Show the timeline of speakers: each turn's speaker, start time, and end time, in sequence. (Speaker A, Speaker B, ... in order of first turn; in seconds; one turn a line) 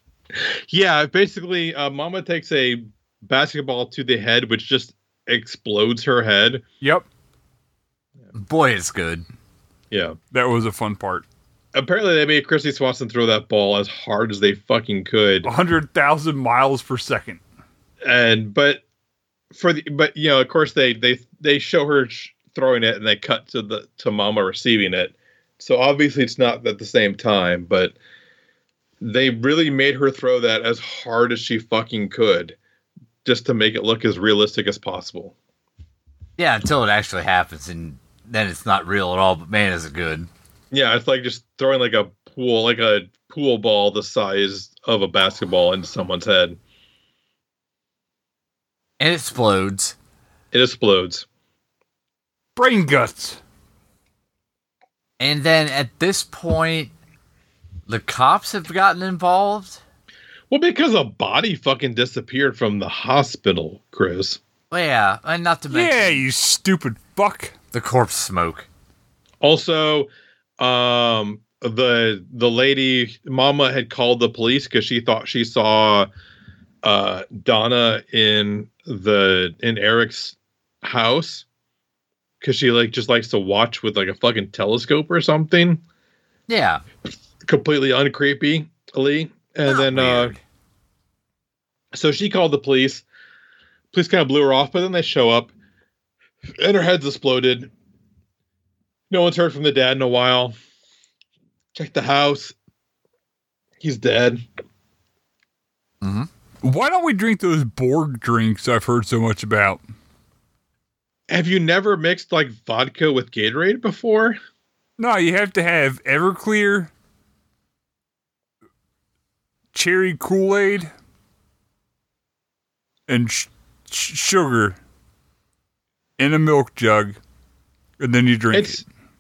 Speaker A: 0.3-6.6
Speaker B: 8.3-9.2
Speaker A: 9.9-10.2
Speaker C: 10.3-11.3
Speaker A: 11.7-15.5
Speaker C: 15.4-17.4
Speaker A: 18.0-18.8
Speaker A: 19.5-27.9
Speaker A: 29.0-32.6
Speaker A: 33.2-35.4
Speaker B: 36.4-40.3
Speaker A: 40.7-46.6
Speaker B: 49.0-50.0
Speaker A: 50.5-51.2
Speaker C: 52.6-53.4
Speaker B: 55.2-56.9
Speaker B: 57.9-59.8
Speaker A: 60.5-64.4
Speaker B: 64.7-66.2
Speaker C: 65.7-67.5
Speaker B: 67.7-68.7
Speaker A: 69.4-76.1
Speaker A: 76.8-81.5
Speaker A: 82.4-85.8
Speaker B: 86.5-86.8
Speaker A: 87.4-90.3
Speaker B: 89.7-90.4
Speaker A: 91.9-93.0
Speaker A: 93.9-95.5
Speaker A: 96.6-97.7
Speaker A: 99.1-100.5
Speaker A: 101.7-102.5
Speaker A: 103.8-104.4
Speaker B: 106.0-106.3
Speaker C: 106.6-109.8
Speaker A: 111.3-114.4
Speaker C: 115.0-116.9
Speaker C: 119.7-120.9
Speaker C: 123.1-124.8
Speaker C: 126.2-127.2
Speaker C: 128.0-128.8
Speaker A: 128.5-128.8